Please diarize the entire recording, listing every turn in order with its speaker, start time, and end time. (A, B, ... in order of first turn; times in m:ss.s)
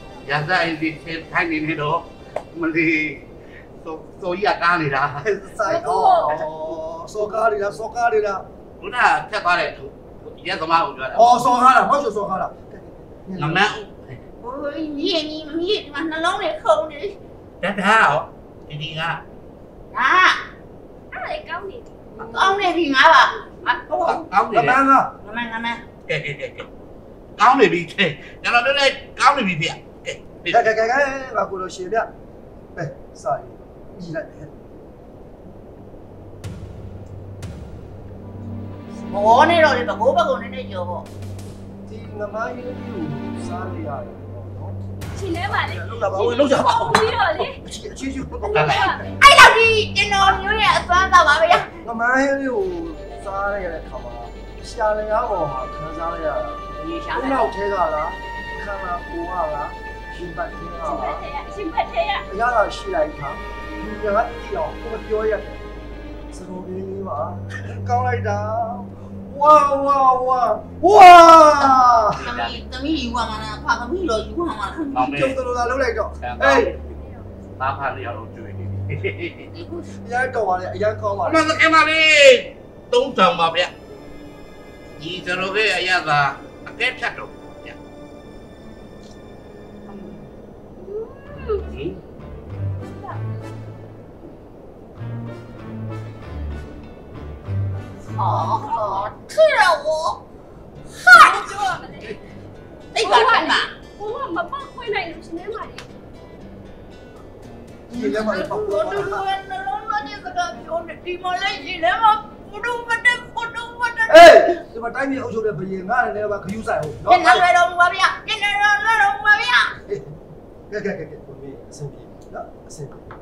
0:00.2-0:03.3 A
0:03.8-0:05.3 A
0:05.2-0:08.5 B
0:05.6-0:06.4 C
0:08.8-0:11.4 A
0:11.1-0:13.7 B
0:13.4-0:14.2 A
0:14.4-0:17.2 D
0:17.6-0:19.2 A
0:19.9-0:20.4 D
0:21.1-0:22.1 C
0:22.2-0:24.2 D
0:24.0-0:24.8 A
0:24.5-0:25.1 B
0:25.2-0:25.8 D
0:26.1-0:26.7 A
0:27.4-0:30.6 A
0:30.5-0:32.1 B
0:32.8-0:34.5 B
0:39.1-0:41.1 D
0:41.9-0:44.8 B
0:45.1-0:47.6 C
0:45.5-0:49.0 B
0:48.5-0:49.1 C
0:48.5-0:49.0 A
0:49.2-0:51.7 D
0:51.8-0:56.6 B
0:56.8-0:57.5 D
0:57.1-1:01.3 B
1:00.8-1:02.2 C
1:02.3-1:05.6 B
1:06.3-1:12.2 B
1:12.1-1:12.6 A
1:12.2-1:15.1 D
1:14.9-1:15.4 A
1:15.1-1:16.7 B
1:16.2-1:16.8 A
1:16.9-1:17.2 C
1:17.6-1:19.5 A
1:19.5-1:19.9 D
1:20.0-1:21.4 B
1:21.2-1:23.7 A
1:25.0-1:27.8 A
1:30.8-1:31.7 C
1:31.7-1:32.0 A
1:32.8-1:33.4 C
1:38.1-1:40.2 D
1:40.9-1:41.7 D
1:41.1-1:42.2 C
1:42.9-1:43.7 D
1:43.0-1:45.9 C
1:47.9-1:49.3 B
1:47.9-1:54.5 D
1:54.1-1:57.4 B
1:57.1-1:59.8 D
1:59.9-2:00.1 B
2:00.7-2:03.1 B